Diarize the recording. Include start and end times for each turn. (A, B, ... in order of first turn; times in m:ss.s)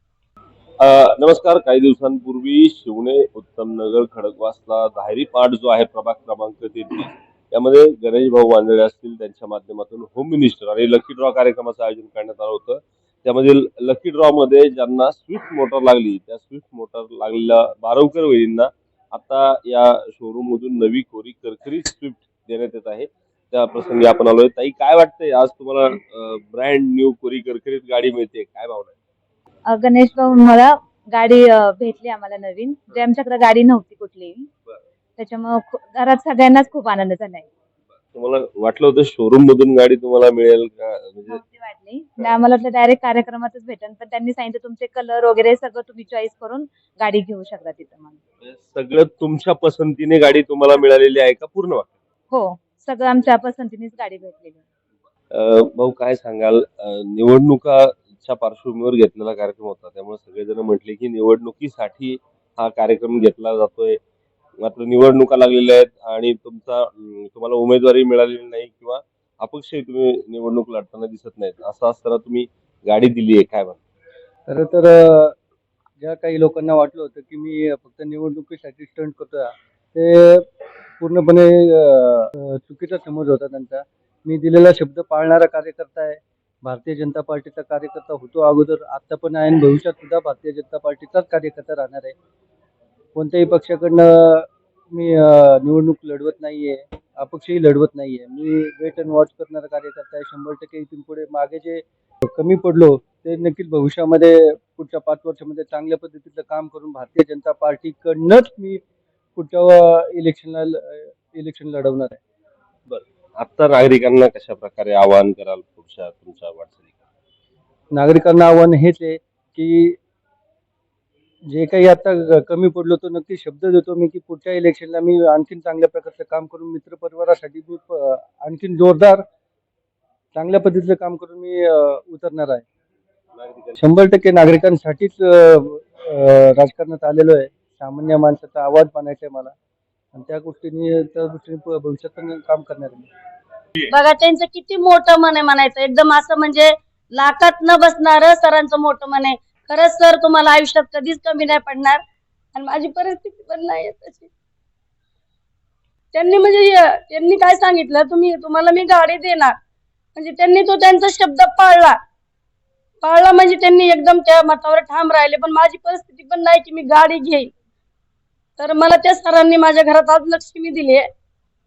0:00.8-0:29.0 A
0:29.7-0:34.5 B
0:35.2-0:37.5 B
0:38.1-0:41.4 A
0:41.3-0:48.2 B
0:48.4-0:51.9 A
0:52.3-0:54.6 B
0:55.3-1:04.0 A
1:04.6-1:13.8 A
1:14.5-1:15.4 C
1:16.0-1:20.4 C
1:21.0-1:32.1 C
1:33.2-1:48.8 C
1:49.4-1:52.2 C
1:52.9-1:56.9 A
1:57.9-2:00.0 C
2:01.5-2:09.2 C
2:10.4-2:12.6 C
2:13.4-2:13.8 A
2:13.8-2:19.5 C
2:20.1-2:23.1 C
2:23.9-2:32.0 D
2:32.6-2:34.3 D
2:36.1-2:39.5 D
2:40.2-2:42.0 D
2:43.0-2:47.5 D
2:48.6-2:51.1 D